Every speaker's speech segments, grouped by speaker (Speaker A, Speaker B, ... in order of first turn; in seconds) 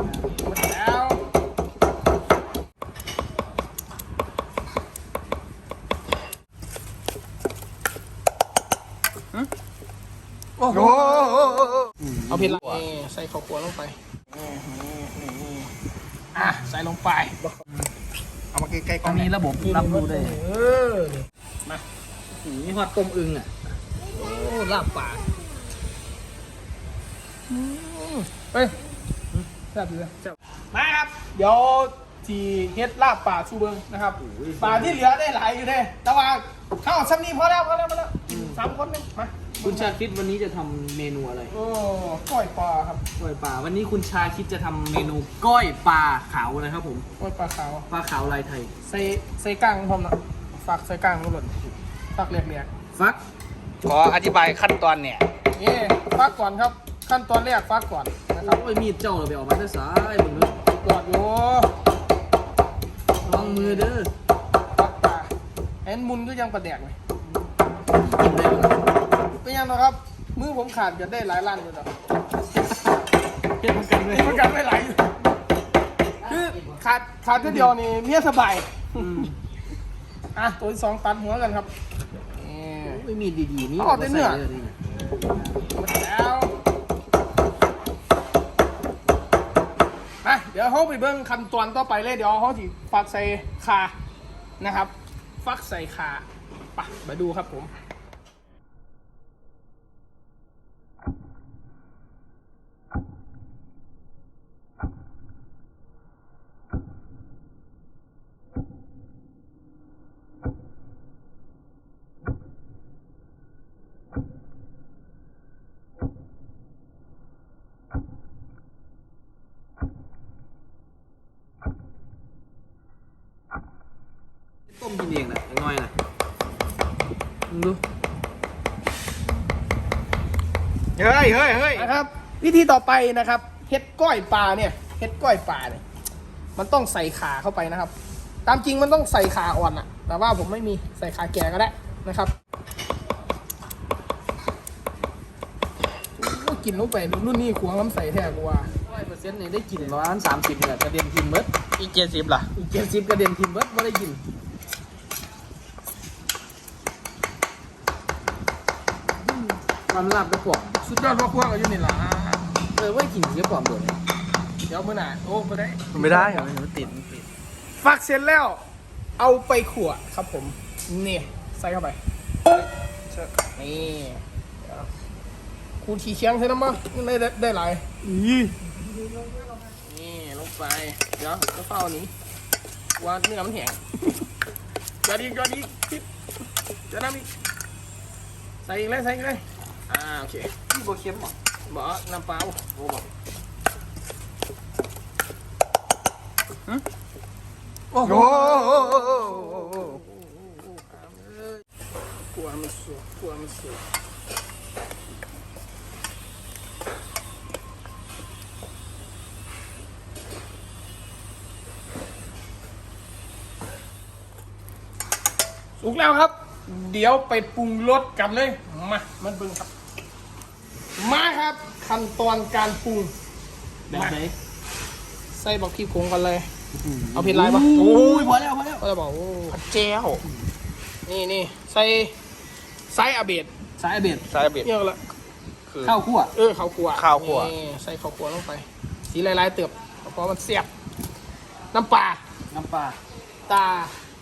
Speaker A: 0.3-1.2, 12.3-15.7, 16.3-17.4, 19.6-21.8, 24.1-25.2, 27.5-28.8, 29.7-30.1, 30.7-40.0, 41.5-43.0, 47.2-47.9, 48.8-51.5, 52.1-52.7, 55.5-58.6, 60.6-61.7, 63.2-63.9, 64.8-65.3, 65.8-67.0, 69.4-71.9, 74.0-75.1, 76.3-79.3, 80.3-81.7, 82.3-83.0, 83.8-84.4, 85.7-86.5, 90.2-93.9, 94.6-96.2, 96.8-97.7, 131.7-135.8, 136.6-137.9, 138.4-142.3, 146.2-148.7, 160.8-162.5, 164.7-166.5, 167.8-168.6, 169.2-172.0, 173.6-174.9, 175.8-177.9, 179.7-182.1, 183.0-184.2, 185.0-186.1, 186.9-187.3, 188.6-190.5, 191.7-192.6, 197.9-201.6, 202.3-203.8, 215.8-219.7, 221.0-223.1, 223.9-224.2, 225.3-226.5, 227.1-228.1, 228.8-229.6, 231.1-232.1, 232.9-233.5, 234.6-235.0, 236.3-240.7, 241.7-242.2, 243.5-243.9
Speaker B: 10.6-10.9, 19.0-20.4, 22.3-23.5, 34.2-35.0, 38.3-38.6, 39.6-41.5, 43.2-47.0, 47.9-48.7, 52.9-53.2, 58.4-60.5, 63.2-64.1, 67.9-68.8, 73.6-74.4, 76.2-76.8, 77.4-77.7, 79.0-79.3, 82.8-84.8, 124.7-125.9, 127.5-127.8, 148.8-151.5, 152.6-154.2, 159.5-160.8, 162.8-164.0, 166.1-166.9, 178.0-178.6, 190.7-191.3, 192.8-193.0, 223.9-224.3, 226.7-228.8, 233.8-234.2, 235.8-236.3, 242.5-243.0
Speaker C: 10.7-11.9, 12.4-12.8, 18.5-19.3, 53.8-55.2, 130.9-131.9, 151.8-152.5, 165.9-167.2, 172.4-173.3, 198.0-200.0, 227.7-228.3, 229.5-230.2, 234.3-234.7, 235.7-235.9, 236.9-237.5